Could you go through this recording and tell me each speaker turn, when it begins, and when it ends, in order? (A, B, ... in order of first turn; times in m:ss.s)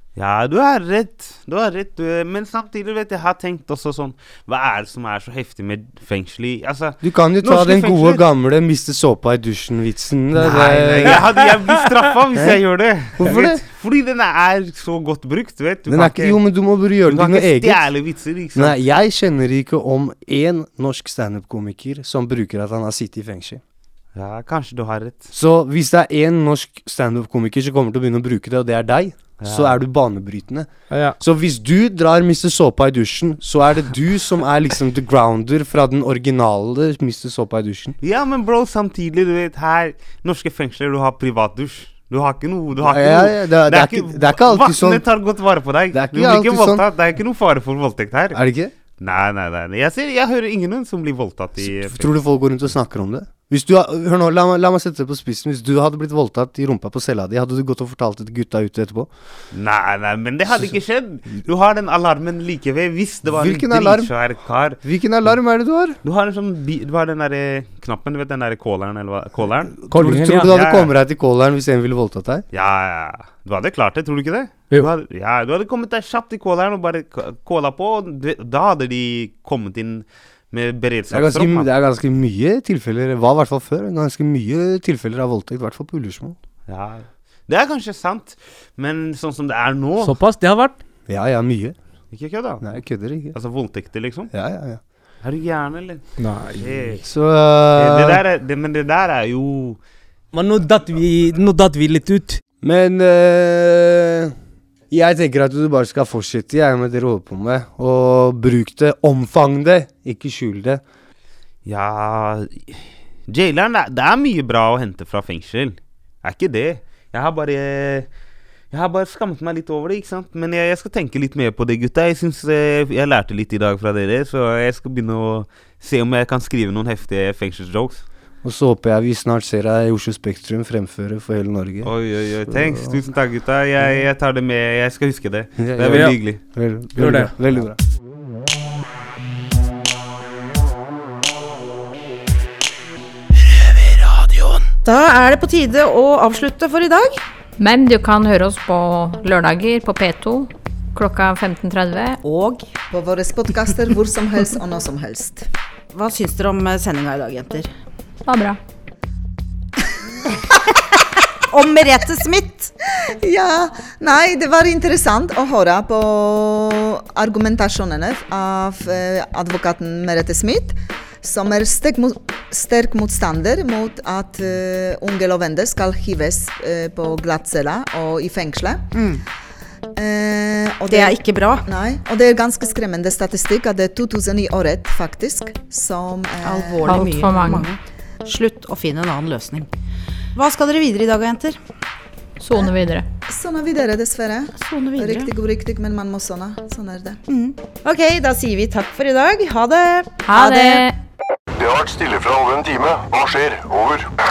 0:00.2-0:08.2 A
0:07.0-0:11.2 B
0:10.4-0:16.4 A
0:10.4-0:11.2 C
0:13.2-0:13.6 B
0:15.9-0:17.9 B
0:17.1-0:18.7 A
0:18.6-0:23.6 B
0:24.1-0:25.3 A
0:25.3-0:30.7 B
0:29.4-0:29.8 A
0:30.9-0:31.2 C
0:31.2-0:38.0 B
0:38.0-0:48.4 A
0:42.8-0:45.0 B
0:45.9-0:46.8 B
0:48.3-0:48.7 B
0:48.9-0:52.1 A
0:51.6-0:59.1 B
0:59.5-1:04.8 A
1:03.3-1:04.1 B
1:04.8-1:06.0 B
1:06.0-1:10.9 A
1:09.9-1:10.5 C
1:09.9-1:12.4 B
1:12.5-1:21.7 A
1:21.1-1:26.4 B
1:26.7-1:30.2 A
1:30.0-1:30.8 C
1:31.0-1:31.8 B
1:32.1-1:34.3 A
1:32.6-1:33.4 B
1:34.3-1:34.8 B
1:35.2-1:37.0 A
1:36.2-1:36.9 C
1:37.0-1:38.2 B
1:37.8-1:39.8 A
1:40.3-1:42.4 C
1:42.6-1:44.3 B
1:44.9-1:50.8 B
1:51.6-1:58.1 A
1:58.7-2:08.0 A
2:08.4-2:11.9 B
2:11.8-2:16.4 A
2:12.4-2:13.0 B
2:15.6-2:17.8 B
2:15.8-2:16.2 C
2:16.9-2:17.4 C
2:24.8-2:27.2 D
2:27.6-2:32.2 E
2:32.2-2:32.7 D
2:32.9-2:35.5 F
2:35.9-2:37.7 D
2:38.2-2:38.6 E
2:41.5-2:42.7 D
2:43.2-2:58.9 F
2:58.9-2:59.2 D
3:00.0-3:06.9 F
3:00.9-3:01.6 D
3:06.4-3:09.7 D
3:06.9-3:07.7 E
3:10.4-3:11.6 D
3:12.4-3:13.1 E
3:13.3-3:17.2 F
3:14.6-3:15.3 D
3:17.3-3:20.9 D
3:20.3-3:21.0 E
3:21.6-3:24.1 G